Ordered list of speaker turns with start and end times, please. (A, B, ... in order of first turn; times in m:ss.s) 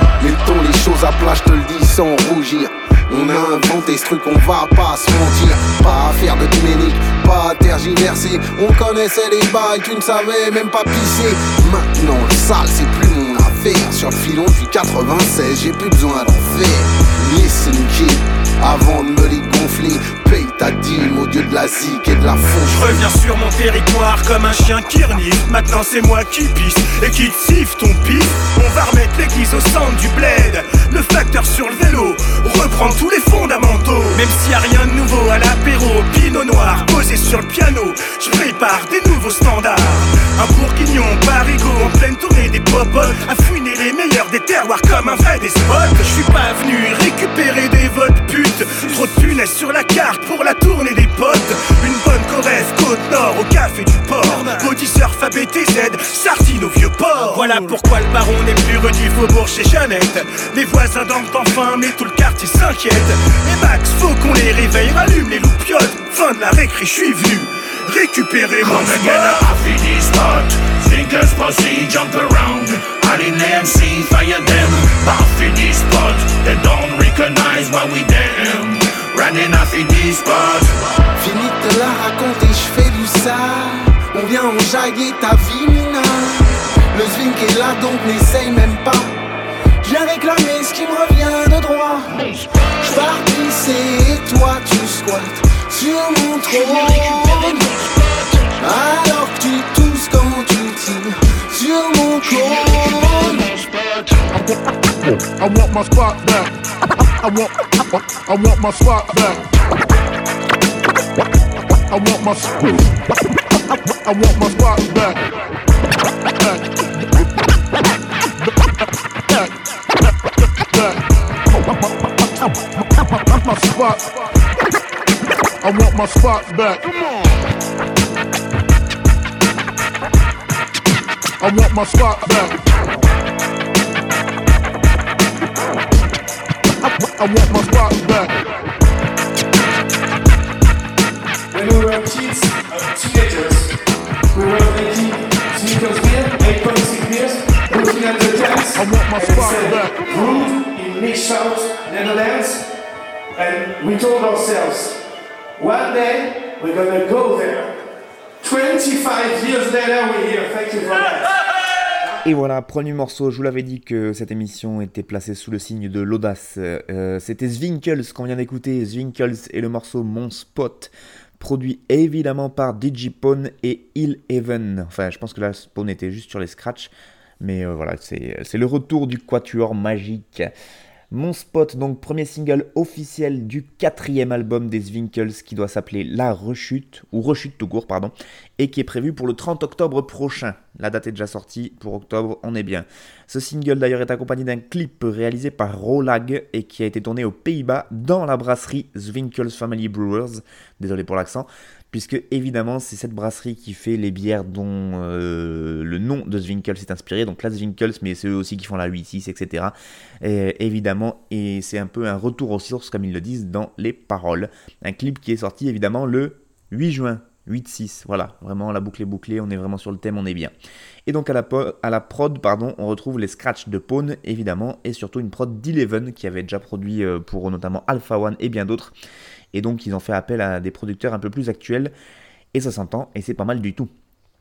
0:00.2-0:23.0 A
0:22.6-1:09.5 B
1:08.6-1:20.8 C
1:21.2-1:29.1 A
1:29.8-1:32.2 A
1:32.8-1:37.8 A
1:36.5-1:38.5 C
1:38.6-1:43.5 A
1:44.3-1:46.5 D
1:47.2-1:49.4 D
1:51.9-1:52.8 D
1:54.0-1:55.2 D
2:00.7-2:01.0 D
2:01.6-2:01.9 D
2:03.0-2:04.1 D
2:05.6-2:06.9 D
2:11.4-2:12.6 D
2:17.1-2:18.4 D
2:21.5-2:23.7 E
2:24.3-2:32.6 E
2:28.8-2:30.1 D
2:33.4-2:35.0 E
2:35.6-2:37.7 E
2:38.4-2:41.2 E
2:42.2-3:00.5 F
3:01.1-3:40.5 F
3:41.1-3:48.9 F
3:49.5-3:51.9 F
3:52.5-3:53.9 F